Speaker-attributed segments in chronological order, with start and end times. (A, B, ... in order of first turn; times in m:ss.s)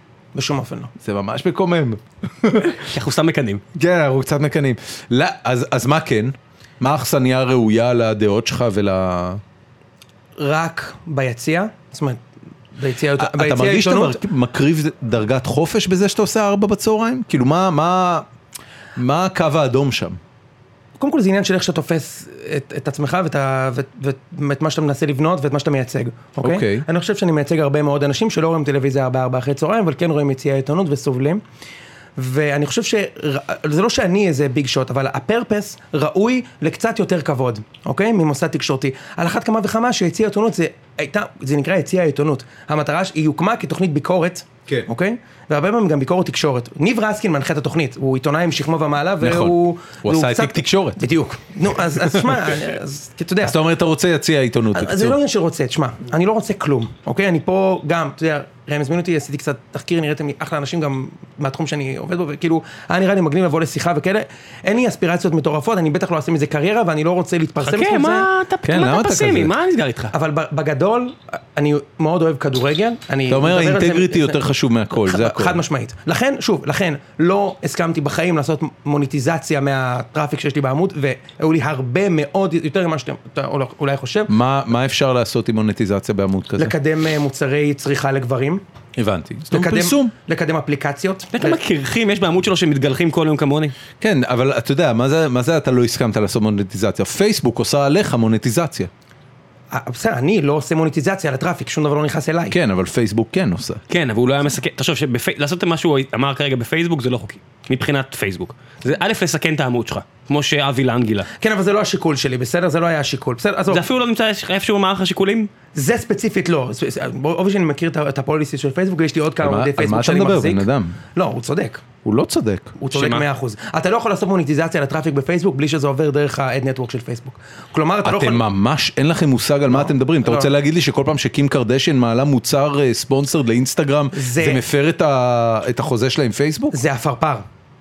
0:00.3-0:00.9 A
0:01.0-0:02.9 B
0:02.8-0:03.6 C
0:03.8-0:09.4 B
0:10.4-0:12.2 A
0:12.8-0:14.2 A
0:13.2-0:18.3 B
0:19.0-0:20.2 B
0:21.0-0:31.4 A
0:26.4-0:26.8 B
0:32.2-0:53.6 A
0:49.2-0:51.0 B
0:52.0-0:52.5 B
0:53.4-0:55.2 B
0:54.7-1:08.3 A
1:07.6-1:10.1 C
1:08.6-1:09.5 B
1:10.1-1:14.4 A
1:13.3-1:15.6 B
1:14.9-1:24.3 A
1:24.3-1:26.7 B
1:26.6-1:28.6 A
1:29.0-1:30.1 B
1:29.5-1:31.6 A
1:31.4-1:33.8 C
1:34.0-1:38.9 B
1:39.7-1:42.6 A
1:42.5-1:43.8 B
1:43.9-1:51.3 C
1:51.4-1:53.8 A
1:53.7-1:55.5 C
1:55.7-2:01.8 A
1:59.4-2:01.0 B
2:02.0-2:02.8 B
2:02.8-2:08.4 A
2:02.9-2:03.2 C
2:08.0-2:16.8 B
2:09.7-2:10.5 A
2:14.1-2:14.6 A
2:16.7-2:17.4 A